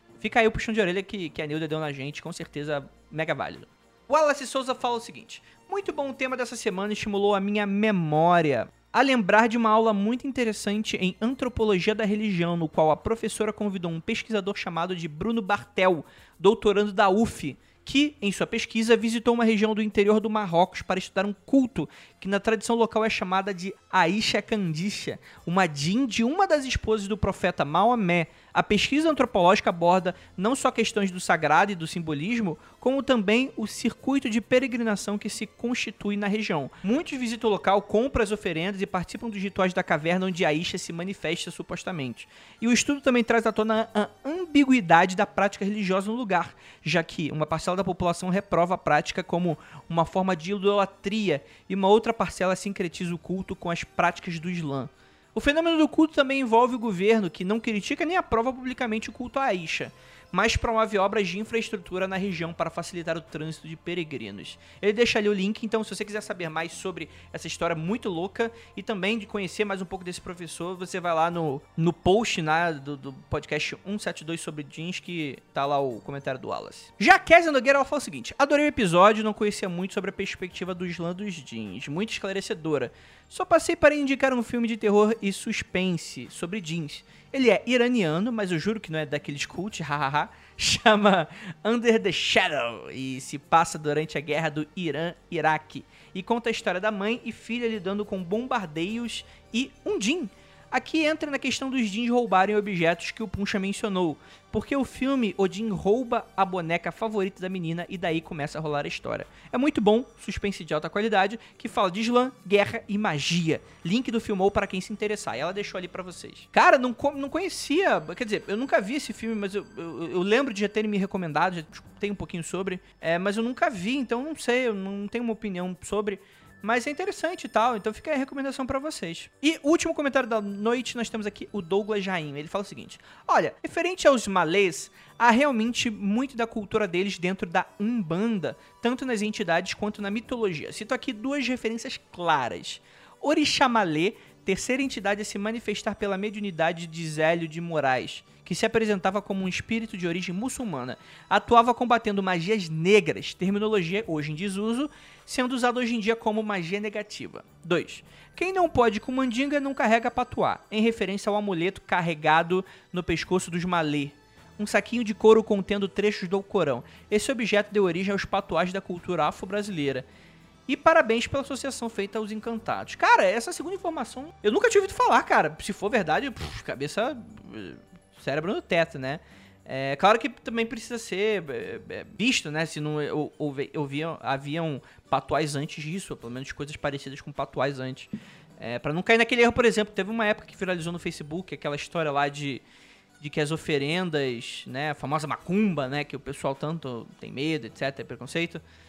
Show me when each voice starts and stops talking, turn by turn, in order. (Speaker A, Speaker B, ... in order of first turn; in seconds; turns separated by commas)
Speaker A: 0.2-170.1, Speaker A: 170.7-192.6, Speaker A: 193.2-198.6